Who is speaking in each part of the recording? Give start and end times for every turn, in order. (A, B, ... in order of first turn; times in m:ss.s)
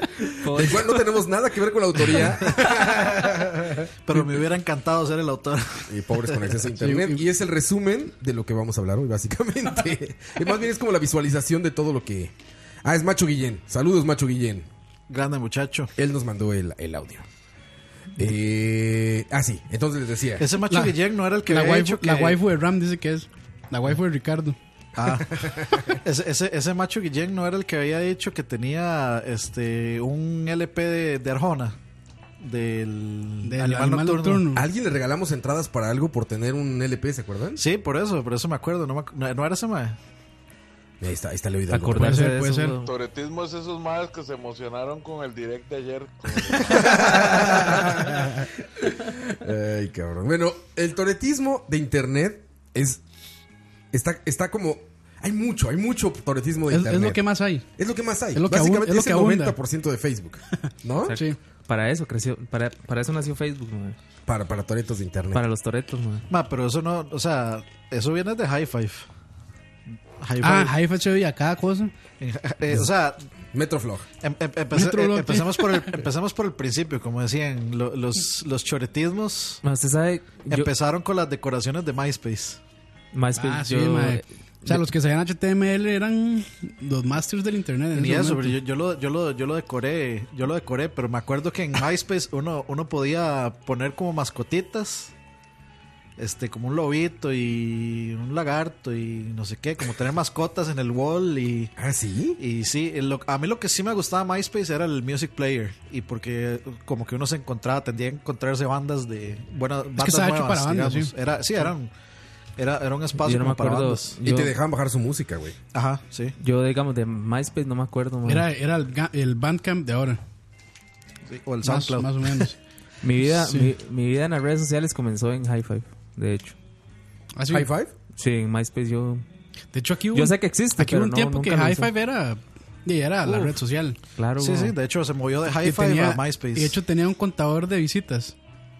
0:00.4-0:01.1 A
0:00.5-0:03.8 B
0:04.0-0:06.3 C
0:05.9-0:12.3 B
0:06.8-0:07.2 D
0:12.8-0:14.7 B
0:15.1-0:15.9 C
0:16.0-0:17.2 B
0:18.2-0:20.5 B
0:20.4-0:22.4 C
0:20.7-0:24.6 D
0:25.0-0:31.8 C
0:25.3-0:26.0 B
0:32.4-0:34.5 C
0:33.4-0:34.6 D
0:34.5-0:37.6 B
0:37.6-0:40.0 C
0:41.0-0:42.2 B
0:41.7-0:42.9 A
0:42.0-0:42.8 D
0:42.8-0:47.4 E
0:46.7-0:48.2 B
0:49.0-0:53.0 B
0:53.9-0:57.2 B
0:56.7-0:57.7 D
0:57.8-1:01.2 B
0:58.3-0:59.6 D
1:01.0-1:04.0 A
1:01.1-1:01.4 D
1:04.3-1:05.4 B
1:05.3-1:06.3 A
1:06.3-1:09.0 C
1:10.2-1:10.7 C
1:10.4-1:11.9 D
1:12.2-1:13.2 C
1:13.5-1:14.1 B
1:14.2-1:19.6 C
1:14.7-1:15.9 D
1:19.6-1:20.7 A
1:20.5-1:22.6 C
1:23.1-1:24.9 A
1:23.4-1:28.6 D
1:27.9-1:35.1 C
1:36.2-1:41.7 C
1:41.8-1:42.4 B
1:42.4-1:51.9 C
1:50.0-1:51.1 D
1:52.6-1:54.1 C
1:53.2-1:54.5 A
1:54.2-1:55.6 B
1:55.7-1:56.3 C
1:56.4-1:58.5 A
1:58.2-2:00.2 D
2:01.3-2:02.5 C
2:01.6-2:02.6 D
2:03.0-2:06.6 A
2:03.2-2:03.7 D
2:07.4-2:07.7 D
2:07.5-2:07.9 B
2:08.2-2:09.2 A
2:09.7-2:14.0 D
2:10.1-2:11.9 A
2:13.2-2:13.6 A
2:14.2-2:14.7 A
2:14.4-2:16.8 C
2:15.5-2:18.4 D